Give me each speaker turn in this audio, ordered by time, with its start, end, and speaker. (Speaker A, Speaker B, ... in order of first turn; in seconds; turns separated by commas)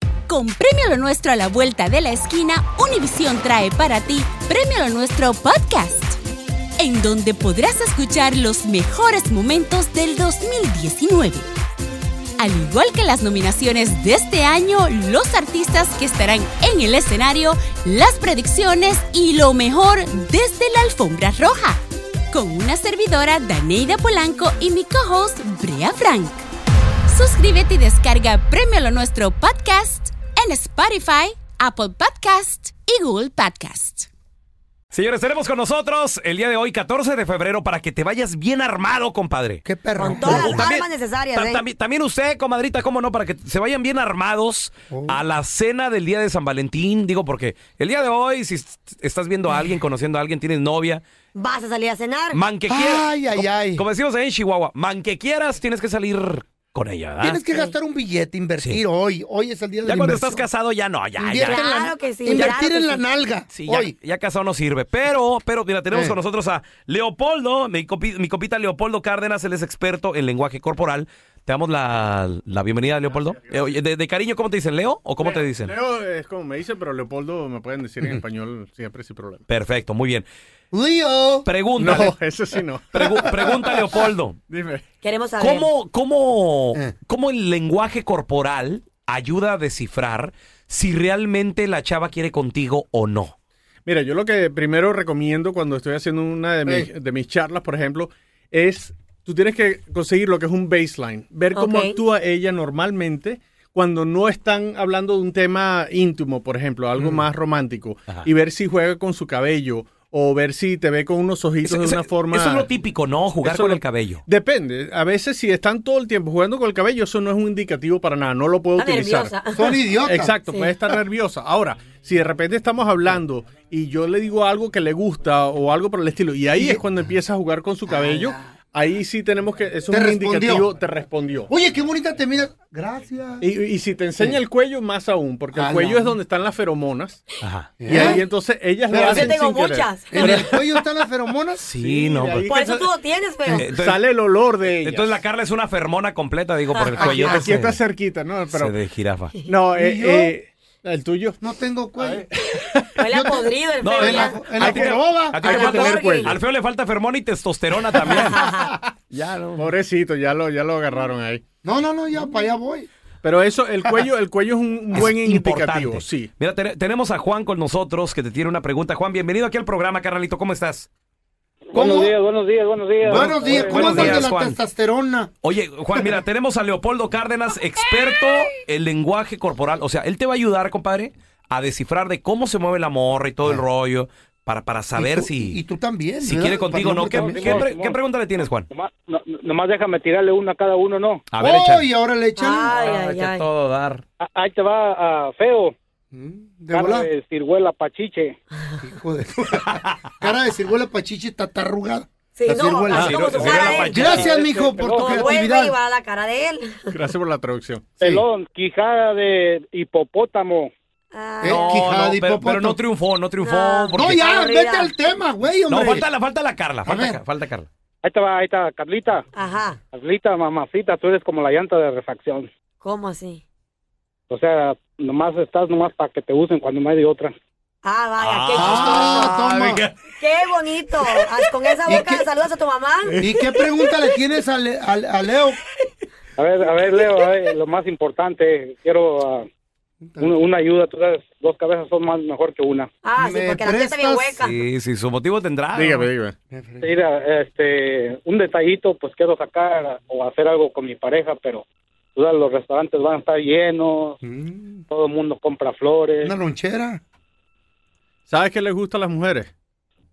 Speaker A: 0.3-6.2, Speaker A: 6.8-11.5, Speaker A: 12.4-21.8, Speaker A: 22.3-26.4, Speaker A: 27.1-34.1, Speaker B: 34.9-51.0, Speaker C: 39.6-40.6, Speaker D: 40.0-41.6, Speaker C: 44.9-45.2, Speaker D: 51.3-52.4, Speaker B: 52.3-57.4, Speaker C: 52.7-53.8, Speaker C: 57.2-60.4, Speaker B: 59.8-61.8, Speaker C: 61.2-63.9, Speaker D: 61.4-63.1, Speaker B: 62.3-62.7, Speaker B: 63.5-75.7, Speaker C: 65.9-66.2, Speaker E: 73.0-73.8, Speaker E: 75.2-79.4, Speaker B: 79.5-80.2, Speaker C: 80.7-82.1, Speaker B: 81.4-82.2, Speaker E: 81.8-83.4, Speaker B: 82.9-84.4, Speaker C: 83.0-83.7, Speaker E: 84.5-84.8, Speaker D: 85.0-85.7, Speaker B: 85.4-93.3, Speaker E: 93.8-112.7, Speaker D: 101.5-102.0, Speaker B: 111.6-114.2, Speaker E: 113.4-119.4, Speaker D: 118.8-120.0, Speaker C: 119.5-120.4, Speaker E: 120.0-131.5, Speaker D: 120.5-120.7, Speaker C: 126.5-126.8, Speaker C: 127.9-128.3, Speaker C: 129.9-130.7, Speaker C: 131.5-133.5, Speaker E: 133.4-137.2, Speaker C: 135.5-136.2, Speaker B: 137.4-137.8, Speaker C: 137.8-138.2, Speaker E: 137.9-140.5, Speaker D: 137.9-138.2, Speaker C: 138.9-139.4, Speaker D: 139.0-140.8, Speaker C: 140.1-141.7, Speaker B: 141.6-142.5, Speaker E: 141.8-143.0, Speaker D: 142.3-143.7, Speaker E: 143.6-145.2, Speaker B: 143.6-144.1, Speaker B: 144.7-147.8, Speaker D: 146.7-147.4, Speaker E: 147.0-148.8, Speaker B: 148.5-149.3, Speaker E: 149.4-151.4, Speaker C: 149.7-150.3, Speaker C: 151.4-152.2, Speaker E: 152.0-152.9, Speaker D: 153.0-154.5, Speaker C: 153.1-156.3, Speaker B: 153.8-158.6, Speaker E: 154.6-156.3, Speaker D: 155.4-156.4, Speaker D: 158.1-158.7, Speaker C: 158.1-158.5, Speaker B: 159.1-159.7, Speaker E: 159.6-161.4, Speaker C: 161.6-162.9, Speaker E: 163.2-166.3, Speaker B: 164.9-170.9, Speaker F: 171.7-174.2, Speaker C: 171.7-172.2, Speaker C: 173.0-175.3, Speaker B: 173.2-174.6, Speaker B: 175.4-185.6, Speaker C: 175.9-176.2, Speaker C: 185.0-187.7, Speaker B: 186.2-188.7, Speaker F: 187.1-187.9, Speaker F: 188.7-191.2, Speaker B: 191.3-191.9, Speaker C: 191.4-192.7, Speaker D: 192.4-193.5, Speaker B: 192.7-194.0, Speaker F: 194.2-195.7, Speaker C: 196.1-197.1, Speaker F: 196.7-198.3, Speaker C: 198.8-205.8, Speaker B: 199.7-199.9, Speaker D: 202.3-204.0, Speaker E: 202.9-203.2, Speaker B: 202.9-204.3, Speaker F: 204.0-205.3, Speaker D: 205.1-207.0, Speaker E: 206.9-207.9, Speaker F: 208.0-210.7, Speaker D: 211.1-211.9, Speaker C: 211.4-212.8, Speaker B: 211.4-214.2, Speaker D: 213.4-215.2, Speaker C: 213.9-216.1, Speaker B: 215.7-217.7, Speaker C: 216.8-217.2, Speaker F: 218.0-219.2, Speaker D: 219.3-219.8, Speaker F: 219.9-222.5, Speaker D: 222.8-223.4, Speaker F: 224.3-227.3, Speaker D: 227.8-229.4, Speaker B: 228.2-229.9, Speaker C: 228.5-229.9, Speaker D: 230.2-233.2, Speaker B: 231.0-231.4, Speaker C: 231.9-232.3, Speaker C: 233.2-235.6, Speaker F: 236.4-239.5, Speaker C: 240.1-240.4, Speaker F: 240.2-242.9, Speaker D: 243.0-244.6, Speaker C: 243.2-244.4, Speaker B: 244.4-246.1, Speaker E: 245.7-246.3, Speaker C: 246.5-247.0, Speaker F: 246.8-251.6, Speaker F: 252.2-254.2, Speaker C: 254.2-254.8, Speaker F: 254.9-256.3, Speaker C: 256.2-257.0, Speaker E: 258.3-259.5